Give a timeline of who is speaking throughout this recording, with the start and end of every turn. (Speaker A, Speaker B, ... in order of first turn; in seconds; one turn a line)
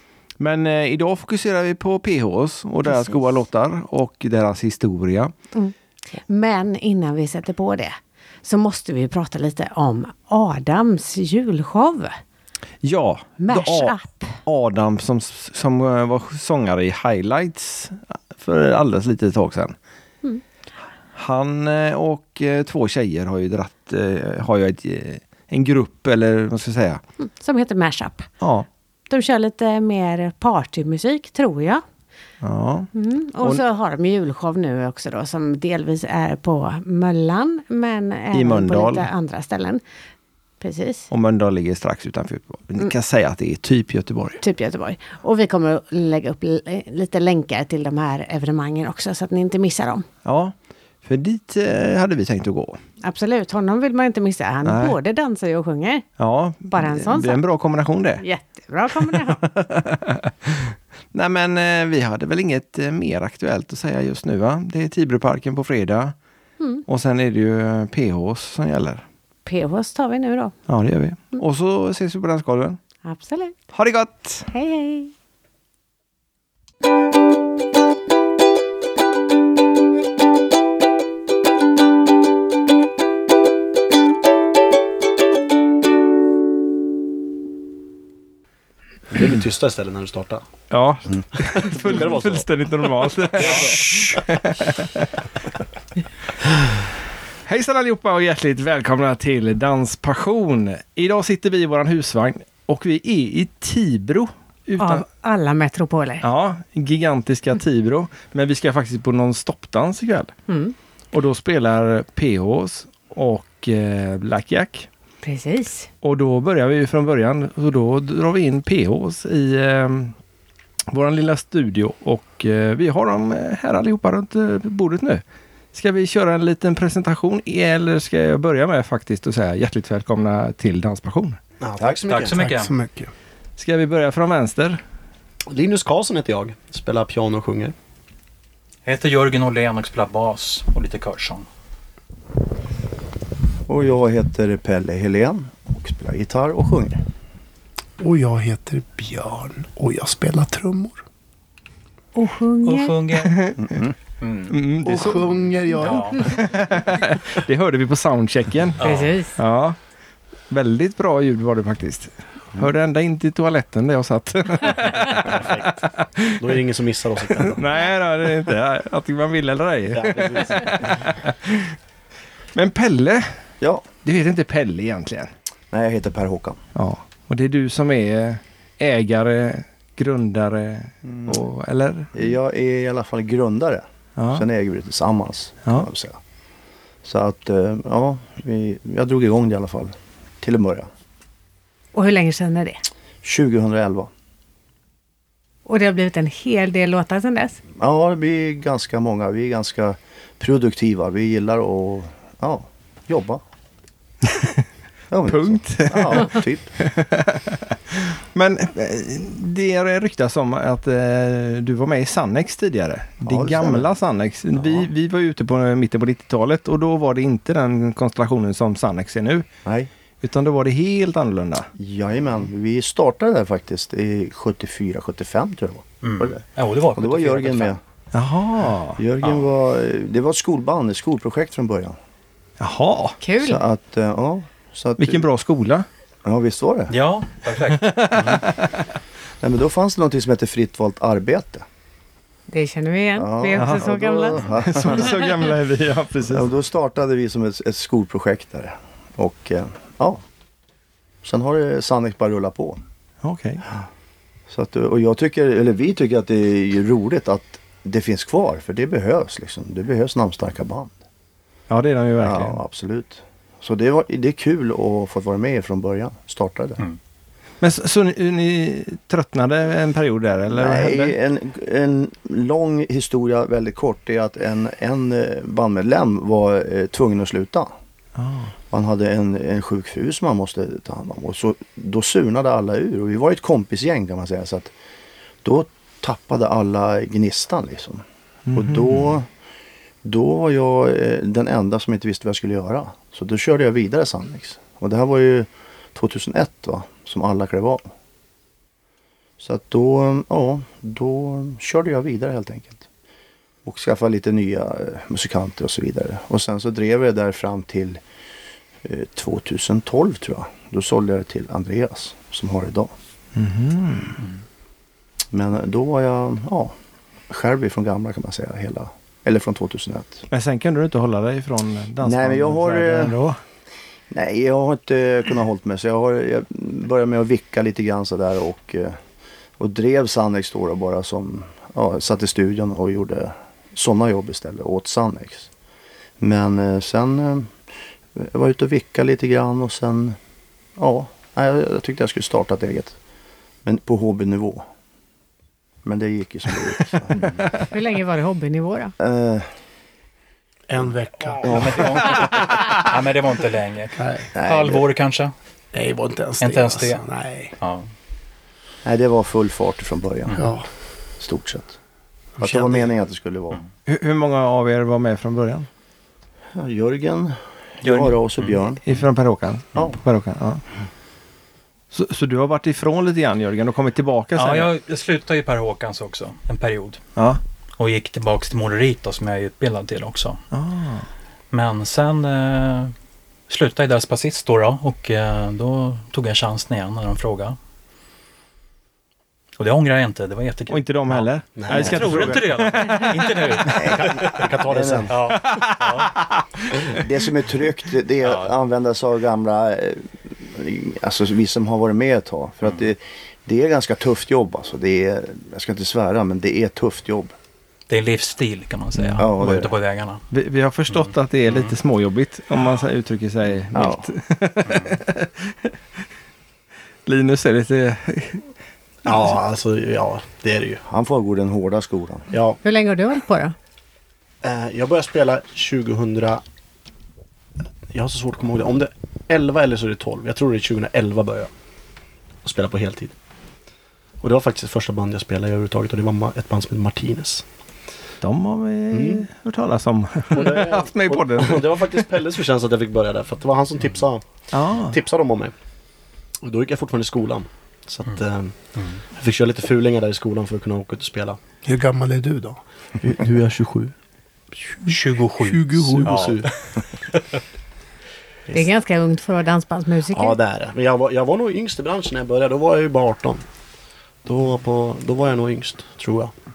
Speaker A: 0.4-5.3
Speaker B: 2.9-3.2
Speaker B: 5.5-12.2
Speaker A: 12.8-19.7
Speaker B: 13.4-14.4
Speaker A: 21.1-27.0
Speaker B: 27.2-28.3
Speaker A: 28.4-28.6
Speaker B: 29.1-31.8
Speaker A: 32.4-32.9
Speaker B: 32.9-39.8
Speaker A: 38.3-39.1
Speaker B: 40.6-41.1
Speaker A: 41.1-44.4
Speaker B: 44.4-50.0
Speaker A: 50.2-52.8
Speaker B: 53.0-56.0
Speaker A: 54.6-55.0
Speaker A: 56.2-58.2
Speaker B: 56.7-57.4
Speaker B: 58.2-59.4
Speaker A: 59.1-66.1
Speaker A: 66.9-69.0
Speaker B: 69.5-70.5
Speaker A: 70.7-72.8
Speaker B: 73.0-73.6
Speaker A: 73.7-74.5
Speaker B: 74.5-75.1
Speaker C: 89.1-90.5
Speaker A: 90.7-95.1
Speaker C: 91.5-92.5
Speaker C: 93.4-93.7
Speaker A: 97.4-105.0
Speaker B: 104.8-106.2
Speaker A: 106.2-110.3
Speaker B: 110.5-110.7
Speaker A: 111.1-114.9
Speaker B: 115.2-115.9
Speaker A: 116.0-120.1
Speaker A: 120.9-125.2
Speaker A: 125.7-131.4
Speaker C: 131.6-132.4
Speaker D: 132.1-132.7
Speaker E: 132.2-133.1
Speaker A: 133.6-134.8
Speaker C: 135.5-137.7
Speaker D: 138.8-141.4
Speaker F: 143.7-147.0
Speaker E: 148.0-151.0
Speaker B: 152.2-153.0
Speaker D: 152.6-153.4
Speaker A: 153.2-153.8
Speaker F: 153.6-153.9
Speaker D: 154.2-154.5
Speaker A: 154.5-155.2
Speaker E: 154.8-156.2
Speaker D: 155.8-156.1
Speaker A: 156.2-158.8
Speaker D: 158.8-159.1
Speaker B: 158.8-159.4
Speaker A: 159.3-159.8
Speaker A: 160.5-166.4
Speaker C: 165.1-165.8
Speaker C: 166.4-167.6
Speaker A: 167.3-171.7
Speaker C: 169.9-171.1
Speaker A: 172.5-173.3
Speaker F: 173.6-173.9
Speaker A: 174.0-175.3
Speaker F: 175.7-176.6
Speaker A: 176.7-182.1
Speaker F: 181.0-181.4
Speaker F: 182.1-186.2
Speaker A: 184.2-184.4
Speaker F: 187.0-190.9
Speaker B: 191.9-192.8
Speaker F: 193.2-194.1
Speaker B: 195.7-197.6
Speaker F: 197.8-203.4
Speaker F: 205.1-206.7
Speaker A: 205.3-219.5
Speaker F: 213.2-213.9
Speaker F: 214.5-214.9
Speaker F: 219.6-219.9
Speaker A: 220.2-221.7
Speaker F: 221.8-226.4
Speaker D: 226.0-227.8
Speaker F: 226.9-227.8
Speaker A: 228.1-229.0
Speaker F: 229.0-232.0
Speaker A: 232.6-233.2
Speaker B: 233.2-233.6
Speaker F: 233.4-235.2
Speaker A: 235.0-235.8
Speaker F: 236.2-236.9
Speaker D: 236.9-238.4
Speaker A: 237.8-238.8
Speaker F: 239.4-241.7
Speaker B: 242.5-244.3
Speaker F: 243.2-245.1
Speaker A: 243.6-243.9
Speaker A: 244.4-246.5
Speaker F: 246.3-250.2
Speaker F: 251.2-252.8
Speaker A: 253.2-253.6
Speaker F: 254.5-260.9
Speaker A: 261.7-262.6
Speaker F: 262.2-266.8
Speaker A: 267.6-271.1
Speaker F: 270.5-277.7
Speaker A: 278.2-278.5
Speaker F: 278.7-284.7
Speaker F: 285.4-289.3
Speaker A: 288.5-289.0
Speaker F: 290.0-297.9
Speaker F: 299.4-302.9
Speaker F: 303.6-308.0
Speaker F: 308.8-312.9
Speaker A: 313.4-314.2
Speaker F: 315.3-316.7
Speaker F: 317.3-320.2
Speaker A: 320.3-323.4
Speaker F: 322.0-323.1
Speaker F: 324.1-329.0
Speaker F: 329.6-335.5
Speaker F: 336.2-337.5
Speaker F: 338.1-340.2
Speaker F: 340.8-342.9
Speaker F: 343.6-344.6
Speaker F: 345.8-347.4
Speaker B: 347.7-348.9
Speaker F: 349.0-349.5
Speaker E: 350.7-351.7
Speaker D: 351.4-355.3
Speaker F: 351.4-351.9
Speaker E: 353.9-354.3
Speaker F: 354.3-354.8
Speaker E: 355.7-357.5
Speaker D: 356.4-357.0
Speaker D: 357.6-357.9
Speaker F: 358.8-360.5
Speaker E: 360.4-360.6
Speaker F: 361.2-361.8
Speaker F: 362.4-363.6
Speaker A: 363.9-365.7
Speaker F: 366.5-368.8
Speaker D: 367.8-368.6
Speaker A: 368.9-370.6
Speaker A: 371.9-374.7
Speaker D: 374.3-377.0
Speaker A: 377.1-377.4
Speaker D: 377.8-380.4
Speaker A: 380.5-381.1
Speaker D: 381.5-382.9
Speaker D: 383.5-387.6
Speaker D: 389.6-394.5
Speaker A: 390.7-393.7
Speaker C: 391.6-392.3
Speaker F: 393.7-395.1
Speaker C: 393.8-395.1
Speaker D: 395.1-396.1
Speaker A: 395.3-396.9
Speaker F: 396.9-407.3
Speaker D: 398.2-398.5
Speaker D: 407.9-410.2
Speaker F: 409.2-409.7
Speaker A: 410.3-415.7
Speaker D: 411.0-411.7
Speaker F: 413.7-414.0
Speaker D: 414.7-415.0
Speaker A: 417.1-418.4
Speaker C: 419.0-420.8
Speaker F: 420.9-422.3
Speaker C: 422.3-422.6
Speaker B: 422.6-423.5
Speaker C: 424.4-426.4
Speaker C: 427.9-431.5
Speaker C: 432.4-433.1
Speaker C: 434.2-437.4
Speaker A: 438.2-442.0
Speaker C: 438.9-439.2
Speaker C: 440.3-445.5
Speaker A: 444.5-445.0
Speaker C: 446.4-448.5
Speaker D: 448.8-449.0
Speaker C: 449.1-451.4
Speaker E: 451.6-452.6
Speaker C: 453.0-453.9
Speaker D: 454.9-457.2
Speaker E: 455.4-456.3
Speaker C: 455.8-456.5
Speaker B: 458.5-460.4
Speaker C: 460.1-463.4
Speaker C: 464.2-466.3